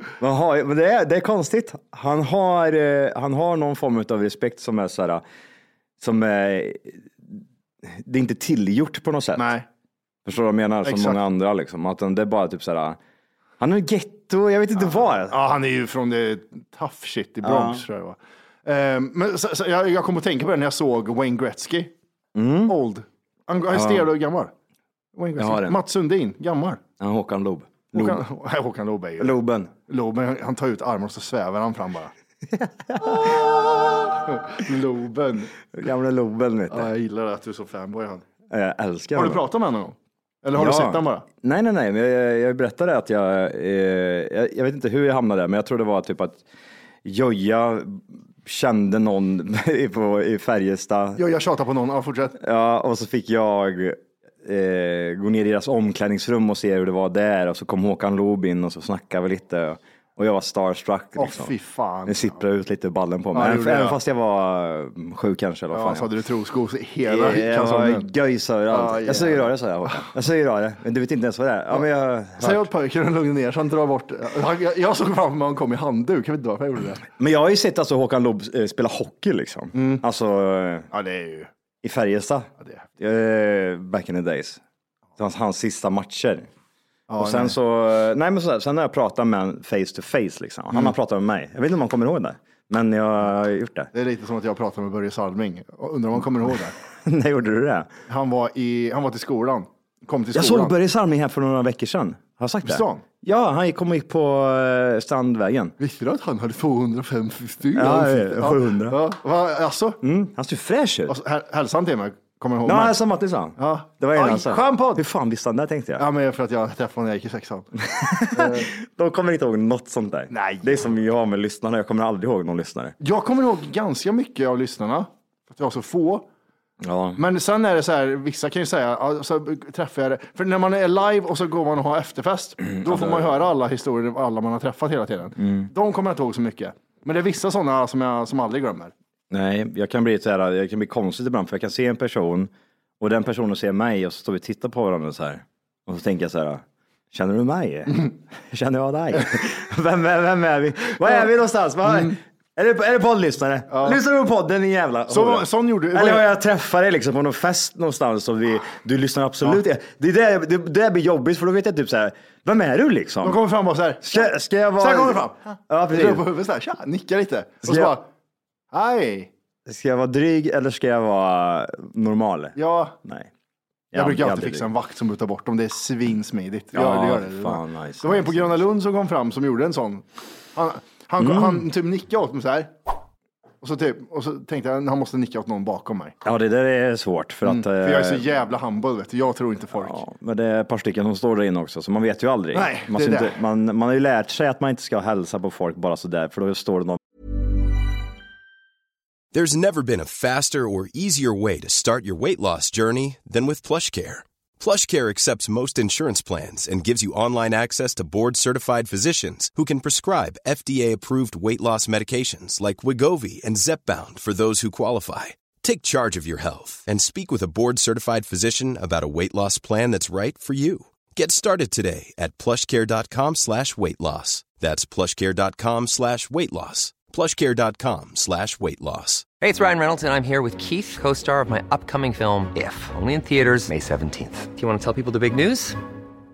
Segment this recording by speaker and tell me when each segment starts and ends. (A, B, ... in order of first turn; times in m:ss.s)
0:00.2-0:05.2 A
0:06.0-0:09.6 A
0:09.4-0:09.7 B
0:10.2-0:13.0 A
0:10.8-0:11.2 B
0:13.6-0:15.3 A
0:14.8-0:21.9 B
0:17.4-0:17.8 A
0:22.4-0:22.8 A
0:22.7-0:24.5 B
0:23.7-0:24.1 A
0:25.2-0:26.8 B
0:25.4-0:25.8 A
0:27.0-0:28.2 A
0:27.9-0:32.1 B
0:29.2-0:29.7 A
0:32.6-0:33.4 A
0:33.2-0:35.6 B
0:35.7-0:36.9 A
0:36.7-0:38.2 B
0:38.5-0:39.4 A
0:39.2-0:41.3 B
0:40.6-0:46.4 A
0:47.0-0:51.2 A
0:51.2-0:52.4 B
0:52.4-1:01.5 A
1:01.2-1:02.4 B
1:02.1-1:06.0 A
1:03.3-1:04.0 B
1:05.7-1:08.1 B
1:07.1-1:12.7 A
1:08.7-1:09.5 B
1:12.4-1:17.1 B
1:17.2-1:20.9 A
1:19.7-1:20.0 B
1:20.9-1:21.5 B
1:21.8-1:24.6 A
1:25.2-1:26.5 A
1:27.1-1:27.6 B
1:27.2-1:33.9 A
1:33.9-1:36.8 B
1:37.0-1:37.9 A
1:38.1-1:40.7 B
1:40.3-1:45.7 A
1:42.6-1:43.0 B
1:45.8-1:50.0 B
1:47.8-1:49.0 A
1:50.0-1:51.2 A
1:51.1-1:53.0 B
1:52.6-1:56.0 A
1:53.6-1:55.0 B
1:56.0-1:57.7 B
1:57.8-2:03.0 A
1:58.3-1:58.7 B
2:00.3-2:00.9 B
2:03.0-2:06.3 B
2:06.8-2:07.2 A
2:07.2-2:18.9 B
2:12.7-2:13.3 A
2:15.4-2:15.7 A
2:19.3-2:43.4 A
2:31.8-2:32.2 B
2:33.7-2:34.0 B
2:35.1-2:36.3 B
2:43.2-2:48.0 B
2:44.0-2:46.2 A
2:47.6-2:48.0 A
2:48.7-2:49.3 B
2:49.7-2:53.3 A
2:52.6-2:53.0 B
2:53.9-2:54.6 A
2:53.9-3:02.7 B
2:56.7-2:58.5 A
3:01.2-3:01.6 A
3:03.6-3:06.2 B
3:06.2-3:08.2 A
3:07.4-3:10.0 B
3:09.8-3:17.0 A
3:12.5-3:13.4 B
3:19.3-3:49.3 C
3:49.4-3:55.8 D